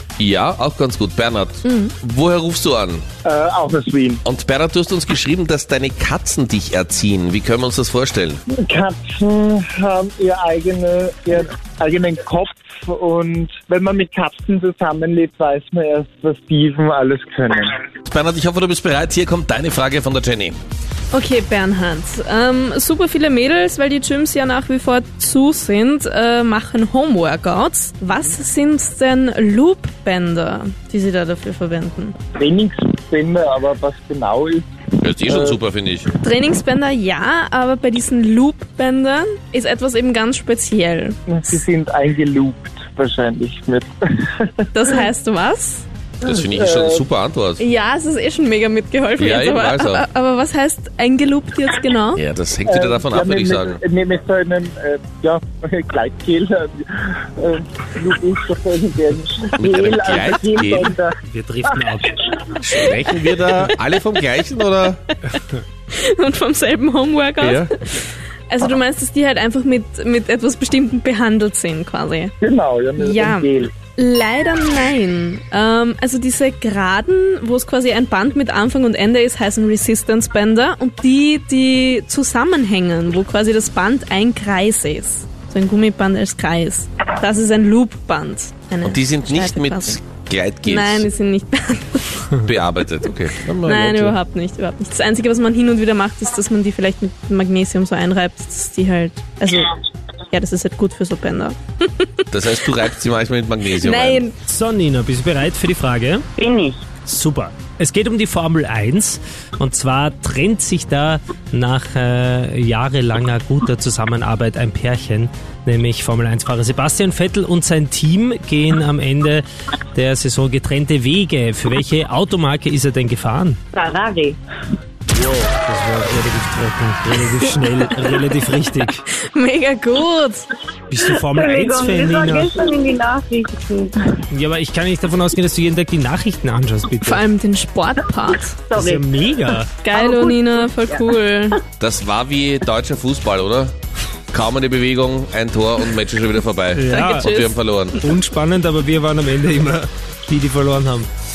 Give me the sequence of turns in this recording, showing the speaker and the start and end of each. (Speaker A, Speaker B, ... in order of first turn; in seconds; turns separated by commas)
Speaker A: 0.2-3.0, Speaker B: 1.6-1.9, Speaker C: 3.2-4.2, Speaker A: 4.2-8.4, Speaker C: 8.5-17.8, Speaker A: 18.0-20.6, Speaker B: 21.1-32.2, Speaker C: 32.4-35.6, Speaker A: 35.0-36.1, Speaker B: 36.2-41.2, Speaker C: 41.3-44.5, Speaker B: 44.7-45.8, Speaker C: 46.2-47.1, Speaker A: 46.2-47.6, Speaker B: 47.6-52.2, Speaker A: 49.2-50.0, Speaker A: 52.1-53.8, Speaker C: 52.7-62.4, Speaker A: 59.6-60.9, Speaker D: 61.3-62.1, Speaker A: 62.6-65.0, Speaker B: 62.7-63.0, Speaker B: 65.9-72.3, Speaker A: 67.4-67.7, Speaker C: 72.4-73.7, Speaker B: 73.0-90.0, Speaker A: 88.8-91.0, Speaker B: 90.7-92.4, Speaker A: 92.4-94.2, Speaker B: 93.6-99.7, Speaker B: 100.3-102.7, Speaker A: 102.3-104.3, Speaker B: 103.7-104.3, Speaker D: 104.4-106.2, Speaker E: 106.4-106.8, Speaker D: 107.1-123.6, Speaker E: 123.7-124.4, Speaker D: 125.1-129.0, Speaker B: 127.2-127.5, Speaker B: 129.1-130.5, Speaker D: 130.9-132.6, Speaker E: 131.2-134.1, Speaker D: 134.3-137.2, Speaker B: 137.0-138.6, Speaker E: 138.7-139.1, Speaker D: 138.8-139.7, Speaker B: 139.8-141.6, Speaker E: 139.9-141.0, Speaker A: 141.8-143.7, Speaker A: 144.3-148.0, Speaker D: 146.7-147.3, Speaker B: 146.9-147.7, Speaker D: 148.0-151.1